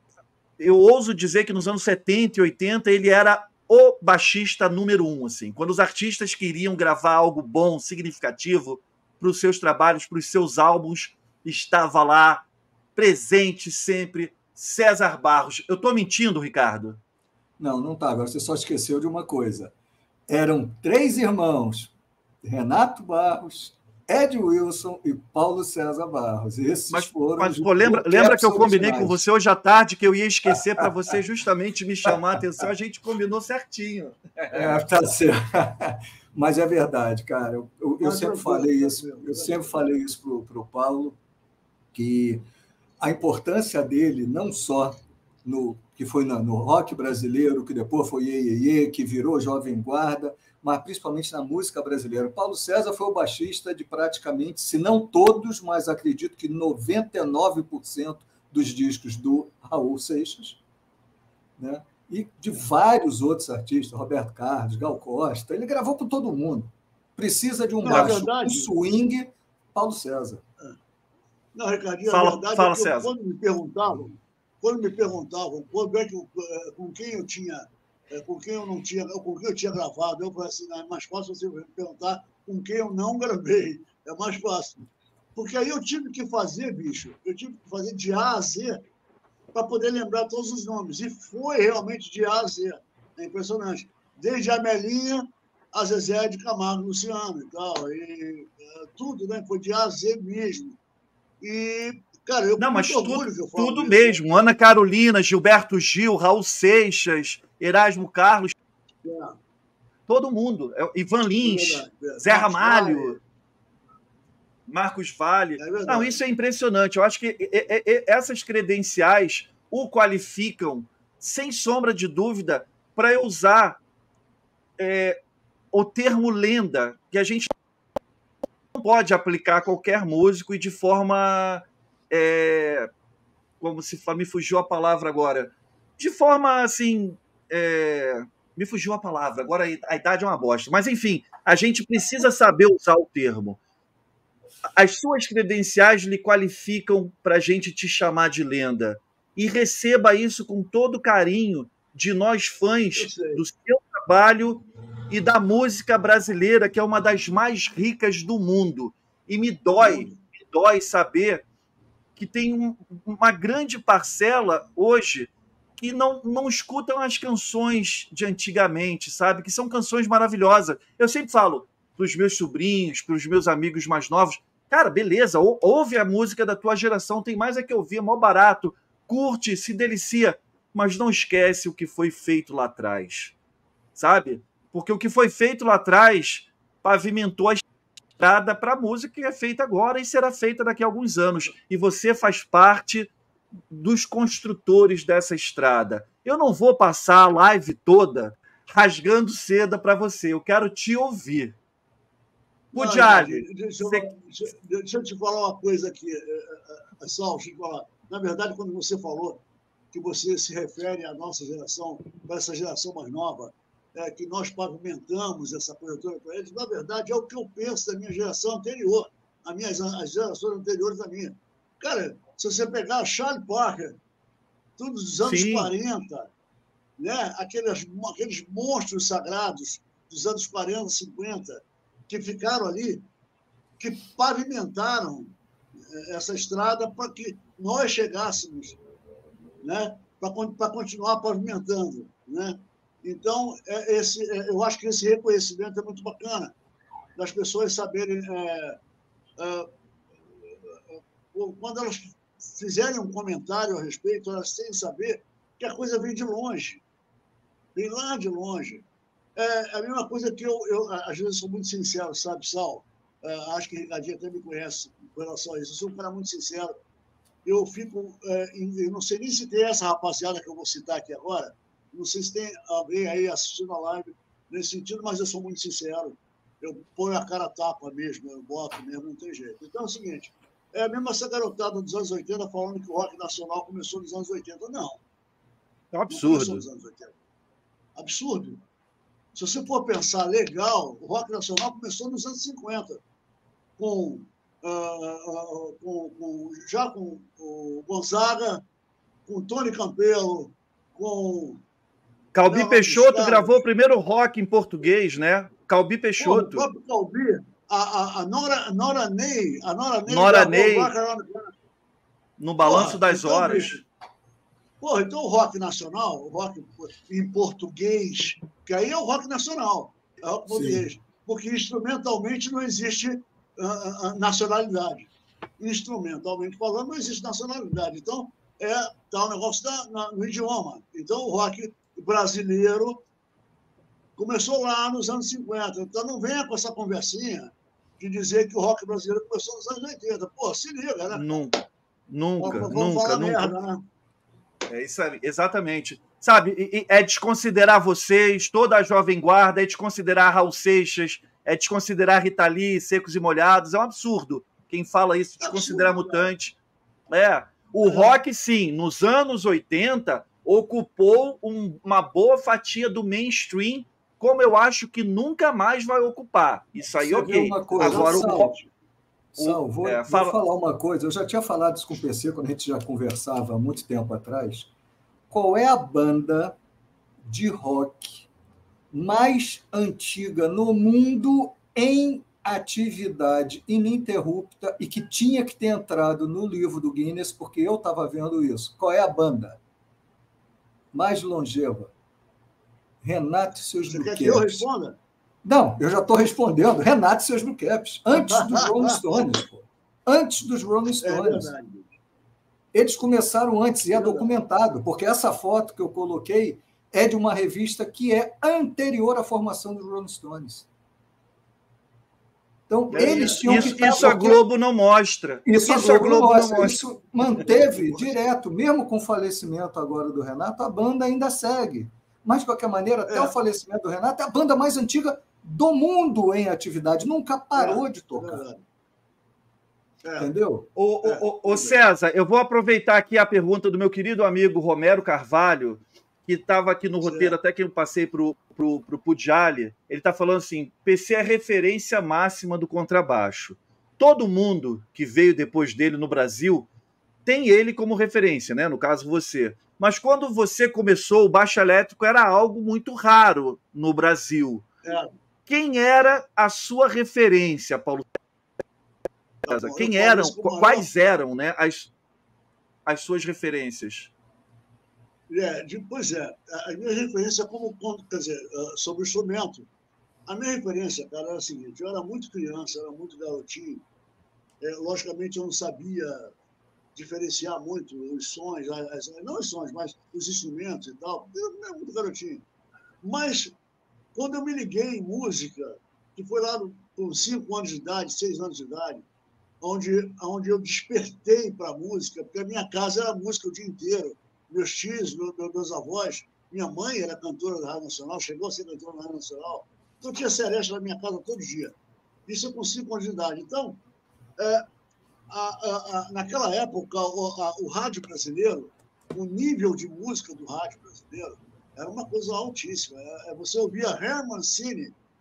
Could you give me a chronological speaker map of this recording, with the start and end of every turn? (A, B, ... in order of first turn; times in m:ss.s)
0:00.6-0:17.0 A
0:17.6-0:19.7 B
0:20.3-0:21.9 B
0:22.4-0:29.2 B
0:26.9-0:34.8 A
0:30.5-0:31.1 B
0:32.0-0:32.6 B
0:34.5-0:41.2 B
0:38.0-0:39.9 C
0:41.9-0:42.4 B
0:43.0-1:00.6 B
1:01.6-1:10.4 B
1:07.8-1:08.7 C
1:11.5-1:24.8 C
1:12.1-1:13.1 A
1:25.4-1:28.8 C
1:29.5-1:40.8 C
1:41.4-1:44.2 C
1:42.6-1:48.5 A
1:49.0-1:49.4 C
1:50.1-1:53.2 A
1:51.4-1:53.2 C
1:54.7-2:03.8 A
1:55.6-1:56.2 C
2:04.8-2:05.2 A
2:05.7-2:07.5 A
2:08.8-2:12.9 A
2:13.6-2:23.6 A
2:24.8-2:41.4 A
2:33.0-2:33.4 C
2:39.8-2:40.2 C
2:42.2-3:03.3 A
3:04.0-3:07.6 A
3:08.2-3:13.1 A
3:13.7-3:21.6 A
3:22.7-3:24.1 A
3:22.7-3:44.0 C
3:44.8-3:46.3 C
3:45.2-3:45.7 A
3:47.0-3:53.0 C
3:53.8-3:55.3 C
3:55.9-3:58.8 C
3:59.6-4:06.5 C
4:07.2-4:08.8 C
4:09.4-4:09.7 C
4:10.9-4:16.8 C
4:17.8-4:26.7 C
4:27.4-4:45.0 C
4:45.9-4:46.6 A
4:46.1-4:47.2 C
4:48.0-4:48.6 C
4:49.3-4:53.0 C
4:53.8-4:58.6 C
4:59.3-5:01.6 C
5:02.3-5:06.7 A
5:02.5-5:03.6 C
5:06.2-5:11.5 C
5:10.1-5:10.9 A
5:12.4-5:13.8 A
5:12.6-5:13.8 C
5:14.8-5:33.0 C
5:20.5-5:20.8 B
5:34.2-5:41.4 C
5:41.1-5:41.5 A
5:42.1-5:43.5 A
5:42.4-5:43.8 C
5:44.7-5:56.5 A
5:55.4-5:56.3 C
5:57.1-6:08.5 A
5:57.8-5:58.2 C
6:06.8-6:08.5 B
6:07.8-6:08.7 C
6:09.3-6:14.7 B
6:09.4-6:10.4 A
6:15.3-6:16.6 B
6:17.2-6:18.3 B
6:18.9-6:29.6 B
6:30.9-6:31.9 B
6:33.0-6:34.7 B
6:33.8-6:35.0 C
6:35.4-6:41.5 B
6:38.1-6:39.3 C
6:41.0-6:42.0 C
6:42.7-6:50.7 B
6:43.9-6:44.3 C
6:52.7-6:54.4 B
6:52.9-6:53.9 C
6:52.9-6:56.8 A
6:55.5-7:08.4 B
6:57.5-6:58.2 C
7:03.1-7:03.3 C
7:07.5-7:08.6 C
7:10.0-7:10.3 C
7:10.2-7:10.7 B
7:10.8-7:26.7 A
7:11.0-7:11.8 C
7:17.0-7:17.3 C
7:27.2-7:34.6 A
7:34.8-7:35.1 C
7:35.5-7:38.1 A
7:39.4-7:40.9 C
7:39.5-7:41.9 A
7:42.8-7:44.1 A
7:45.3-7:49.7 C
7:50.3-7:53.8 C
7:54.6-7:56.3 C
7:57.0-8:02.4 C
8:03.0-8:03.5 C
8:04.2-8:09.0 C
8:09.6-8:21.8 C
8:22.3-8:23.8 C
8:24.4-8:24.6 C
8:25.3-8:35.0 C